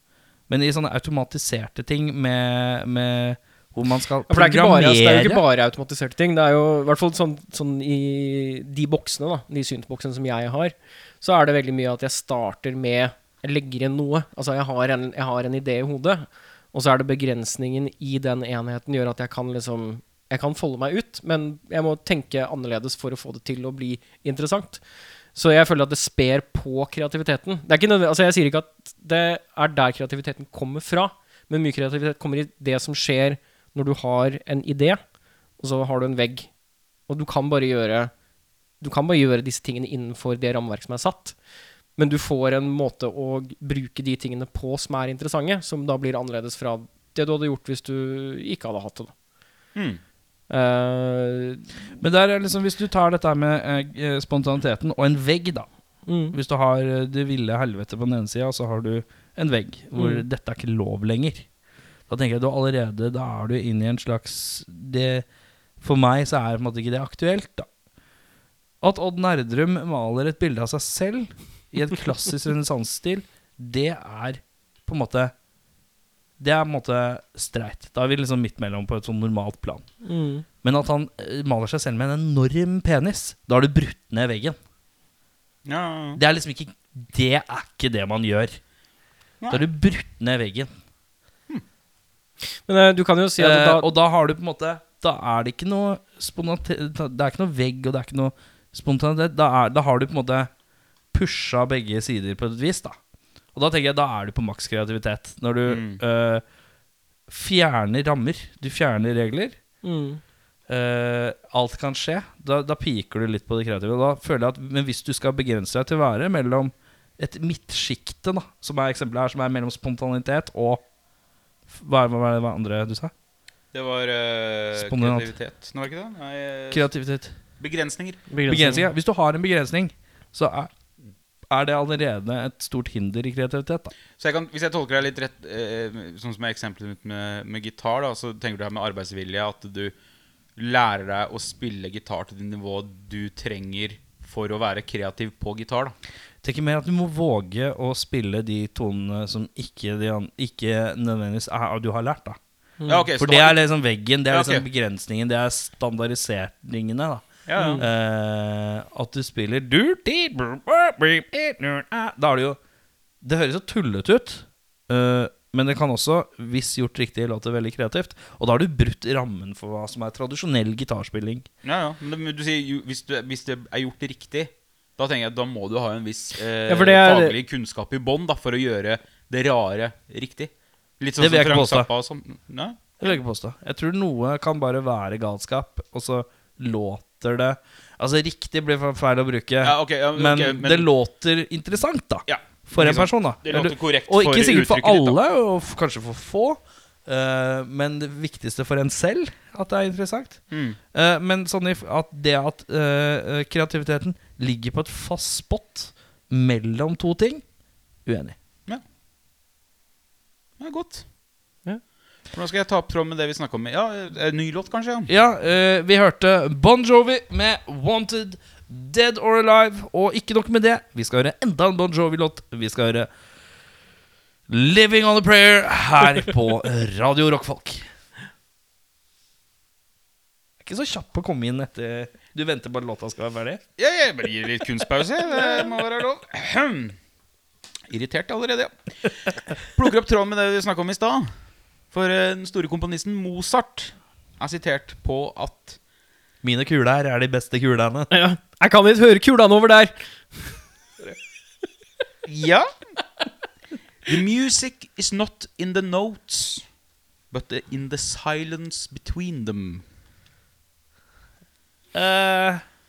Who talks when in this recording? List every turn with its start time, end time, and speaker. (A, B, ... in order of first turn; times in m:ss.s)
0:00.5-0:05.4 A
0:04.3-0:24.8 B
0:25.4-0:35.0 B
0:35.6-0:36.5 B
0:37.1-0:38.1 B
0:38.8-0:41.4 B
0:42.0-0:49.1 B
0:49.8-0:50.0 C
0:50.5-0:51.7 B
0:52.0-0:55.7 A
0:56.1-0:56.4 B
0:56.3-1:01.5 A
1:00.0-1:00.2 B
1:02.1-1:05.2 A
1:05.8-1:07.7 A
1:08.8-1:15.3 A
1:16.4-1:19.8 A
1:20.0-1:20.4 B
1:20.6-1:24.6 A
1:25.7-1:26.2 C
1:26.2-1:28.6 A
1:29.5-1:30.7 A
1:32.7-1:33.9 B
1:33.4-1:40.5 A
1:41.1-1:43.0 A
1:43.6-1:46.4 A
1:45.7-1:46.0 C
1:47.3-1:49.6 A
1:49.8-1:50.2 B
1:50.7-2:00.8 A
2:01.7-2:03.1 A
2:03.7-2:06.9 C
2:04.8-2:05.3 A
2:06.7-2:07.4 A
2:07.6-2:08.2 C
2:08.3-2:08.9 B
2:08.5-2:10.7 A
2:11.5-2:13.9 A
2:14.2-2:19.9 C
2:20.6-2:26.0 C
2:26.4-2:32.4 A
2:32.8-2:33.1 B
2:32.9-2:33.6 C
2:33.2-2:42.6 A
2:34.3-2:34.6 C
2:37.5-2:37.8 C
2:37.6-2:37.8 B
2:43.2-2:51.5 A
2:51.6-3:03.1 C
2:56.7-2:57.4 B
3:01.2-3:01.9 A
3:03.0-3:20.4 A
3:09.6-3:10.9 C
3:12.3-3:15.2 C
3:20.5-3:20.8 C
3:20.9-3:27.4 A
3:28.0-3:28.4 A
3:30.6-3:31.0 C
3:32.3-3:35.1 C
3:35.1-3:43.1 A
3:44.5-3:47.8 A
3:50.6-3:53.6 A
3:53.8-3:57.0 C
3:57.9-3:58.7 C
3:59.6-4:01.3 C
4:01.9-4:05.8 C
4:06.4-4:08.1 A
4:08.1-4:10.5 B
4:12.3-4:12.7 C
4:14.1-4:16.6 C
4:17.3-4:19.8 C
4:21.9-4:22.6 A